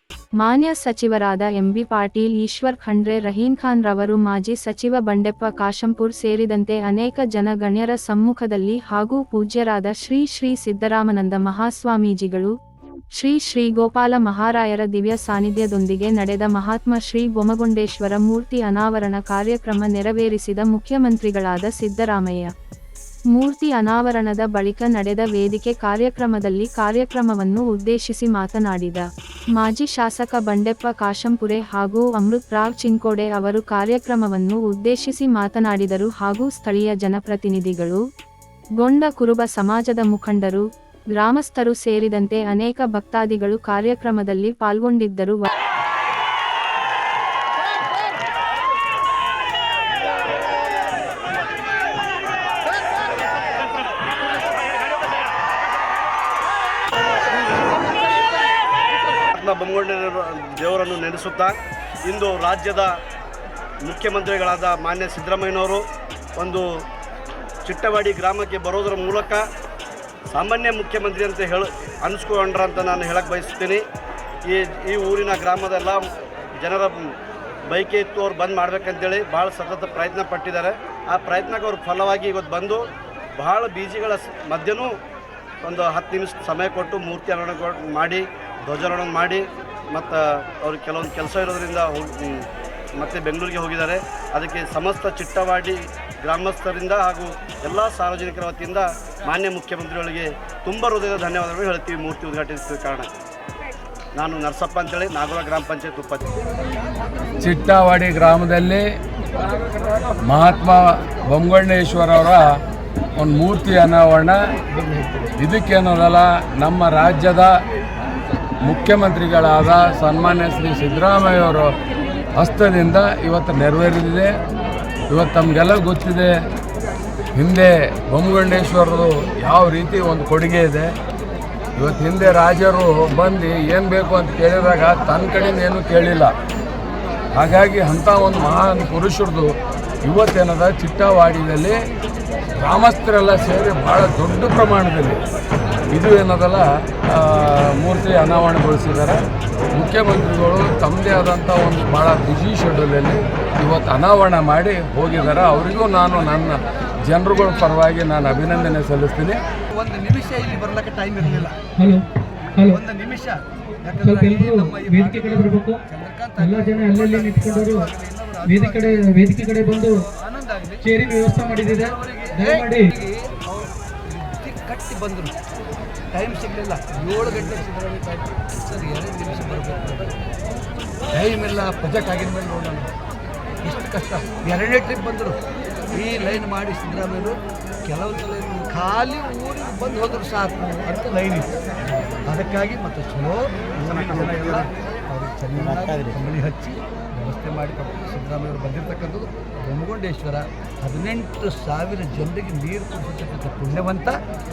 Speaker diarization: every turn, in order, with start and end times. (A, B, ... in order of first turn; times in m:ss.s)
0:00.4-0:12.5 A
0:13.2-0:22.5 A
0:23.4-0:38.0 A
0:38.8-0:40.6 A
0:41.2-0:45.5 A
0:59.4-1:02.9 B
1:03.8-1:05.8 B
1:06.4-1:06.7 B
1:07.6-1:09.4 B
1:10.3-1:13.8 B
1:14.4-1:16.0 B
1:16.6-1:17.1 B
1:17.7-1:22.8 B
1:23.4-1:24.9 B
1:25.6-1:32.4 B
1:33.0-1:43.1 B
1:44.2-1:46.4 B
1:47.4-1:48.8 C
1:50.2-1:52.5 C
1:53.2-1:54.4 C
1:55.1-1:57.5 C
1:58.6-2:01.7 C
2:02.4-2:04.3 C
2:05.1-2:06.3 C
2:07.4-2:10.9 C
2:11.8-2:16.3 C
2:17.4-2:19.5 C
2:20.0-2:21.8 C
2:22.6-2:25.2 C
2:25.9-2:29.2 C
2:29.8-2:39.4 C
2:39.7-2:41.6 D
2:41.8-2:42.0 E
2:42.6-2:42.8 E
2:42.6-2:49.0 D
2:44.0-2:45.8 E
2:46.4-2:47.9 E
2:48.4-2:50.0 E
2:49.8-2:50.9 D
2:50.8-2:52.9 E
2:51.4-2:55.4 D
2:56.1-3:00.2 D
3:01.1-3:02.9 D
3:03.6-3:05.4 D
3:05.9-3:07.4 D
3:07.9-3:11.6 D
3:12.2-3:24.2 D